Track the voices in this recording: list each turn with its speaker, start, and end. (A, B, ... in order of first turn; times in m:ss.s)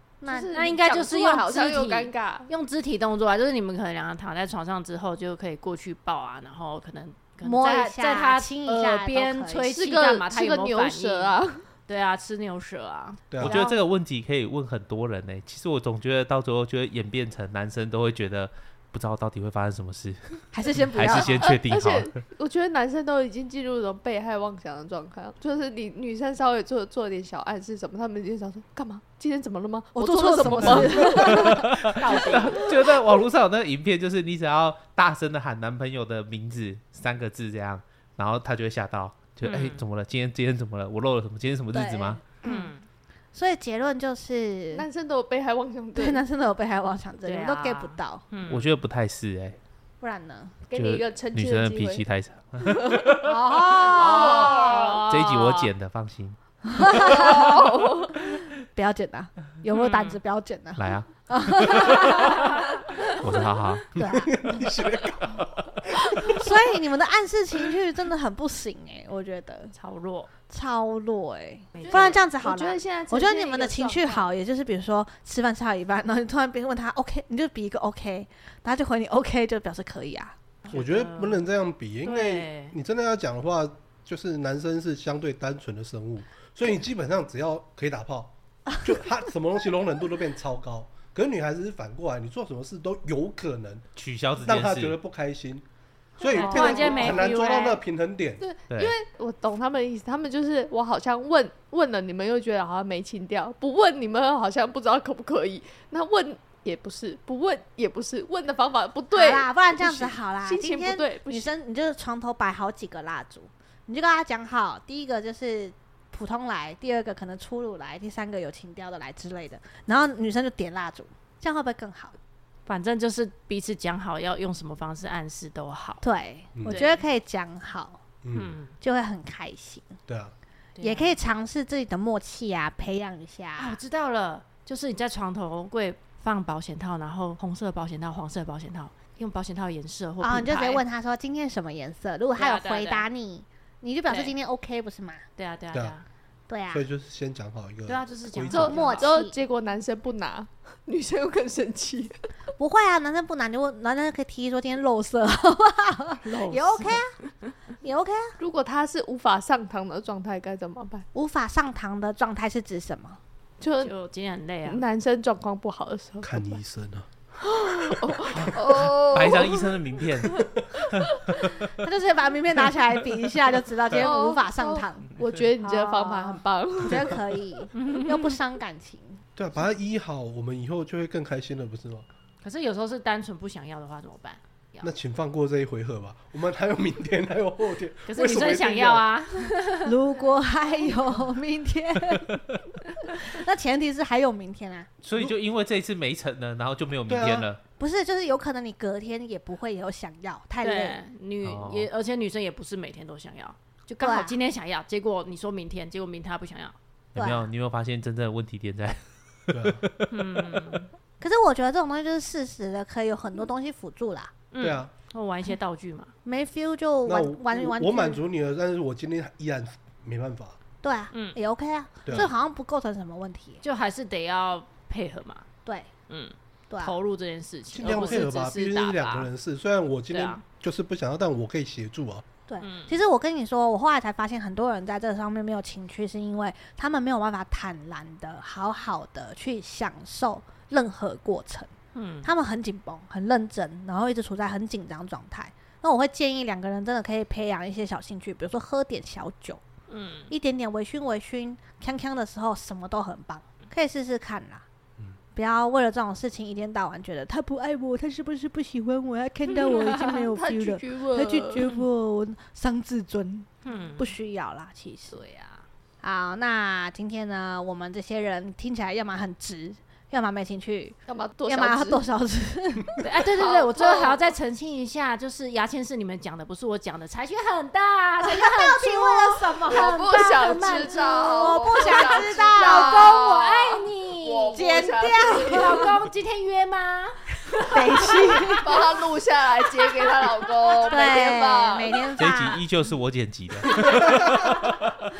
0:00.2-0:00.6 A
0:00.2-0:02.5 B
0:00.5-0:13.2 C
0:07.4-0:09.7 A
0:09.7-0:11.7 B
0:13.3-0:13.6 D
0:13.4-0:22.1 E
0:13.4-0:13.8 A
0:20.5-0:21.5 A
0:21.1-0:31.6 B
0:29.9-0:32.4 A
0:31.3-0:42.2 E
0:31.9-0:32.6 C
0:39.4-0:39.8 C
0:41.7-0:42.7 A
0:42.4-0:42.8 C
0:43.3-0:44.8 A
0:44.7-0:46.2 B
0:45.9-0:48.2 A
0:47.2-0:48.6 C
0:48.5-0:49.6 E
0:50.0-0:50.6 A
0:50.7-0:52.0 B
0:50.7-0:53.3 E
0:52.6-0:53.2 B
0:53.2-0:54.8 A
0:53.8-0:56.9 E
0:54.0-0:55.7 C
0:56.6-1:03.3 A
0:57.0-0:58.2 B
0:59.7-1:00.2 C
1:00.8-1:01.6 E
1:01.8-1:03.1 C
1:03.1-1:03.8 E
1:03.9-1:06.5 D
1:04.0-1:04.6 A
1:06.2-1:09.7 A
1:09.7-1:10.3 C
1:10.5-1:20.4 A
1:11.8-1:12.2 C
1:11.8-1:14.3 B
1:20.6-1:21.5 C
1:20.7-1:33.8 D
1:22.0-1:22.7 C
1:34.0-1:35.0 E
1:34.4-1:35.6 D
1:36.2-1:38.4 D
1:36.2-1:37.3 B
1:36.3-1:37.8 C
1:36.5-1:36.9 A
1:38.4-1:51.5 B
1:38.7-1:38.9 E
1:49.1-2:02.2 A
2:02.6-2:06.0 C
2:06.0-2:08.0 A
2:06.6-2:06.8 D
2:06.6-2:07.0 C
2:08.2-2:08.6 D
2:08.3-2:08.8 C
2:08.8-2:10.0 A
2:10.1-2:10.3 D
2:10.8-2:11.1 C
2:10.8-2:13.8 A
2:13.6-2:20.8 C
2:20.2-2:25.2 A
2:22.4-2:23.1 C
2:24.1-2:24.3 C
2:25.4-2:26.0 C
2:26.5-2:26.8 A
2:26.7-2:28.8 D
2:27.9-2:29.2 C
2:28.5-2:32.3 B
2:28.6-2:29.4 A
2:32.6-2:37.1 A
2:36.2-2:37.0 C
2:37.8-2:38.4 A
2:38.4-2:41.0 B
2:41.1-2:43.2 A
2:43.6-2:43.9 B
2:43.8-2:44.8 C
2:44.7-2:46.6 B
2:46.2-2:47.1 D
2:47.4-2:49.7 B
2:47.9-2:48.5 D
2:48.3-2:51.6 E
2:50.3-2:50.7 D
2:51.8-2:55.1 A
2:53.9-2:57.2 B
2:55.6-2:59.2 A
2:57.7-2:58.3 C
2:59.4-3:02.1 D
3:02.4-3:04.9 C
3:04.8-3:09.1 D
3:08.1-3:09.9 C
3:09.8-3:12.4 A
3:13.1-3:14.9 A
3:15.0-3:17.6 E
3:17.1-3:17.5 D
3:17.8-3:21.0 A
3:20.6-3:26.7 C
3:21.4-3:21.9 E
3:24.0-3:24.4 A
3:27.1-3:30.8 E
3:27.2-3:27.5 A
3:29.5-3:29.8 D
3:30.1-3:30.9 C
3:31.2-3:34.3 A
3:34.5-3:36.1 C
3:34.6-3:34.9 D
3:36.2-3:38.2 A
3:37.0-3:40.6 D
3:40.8-3:43.6 A
3:41.1-3:41.4 C
3:42.0-3:42.3 D
3:43.6-3:45.4 C
3:46.1-3:49.3 C
3:46.7-3:46.9 A
3:47.7-3:52.2 D
3:50.1-3:50.4 C
3:52.5-4:01.7 A
3:52.6-3:53.0 C
4:01.9-4:02.3 C
4:02.2-4:09.6 A
4:09.9-4:10.3 C
4:10.3-4:14.6 A
4:15.3-4:25.2 A
4:19.6-4:21.7 B
4:23.6-4:24.1 C
4:25.1-4:25.6 C
4:26.0-4:33.0 A
4:31.1-4:32.0 B
4:33.0-4:48.6 C
4:33.3-4:34.2 B
4:38.2-4:43.5 A
4:39.7-4:45.9 B
4:44.5-4:45.9 A
4:47.7-4:48.8 A
4:48.1-4:52.0 B
4:50.8-4:52.6 A
4:52.2-4:54.9 E
4:53.8-4:54.4 A
4:54.0-4:54.3 D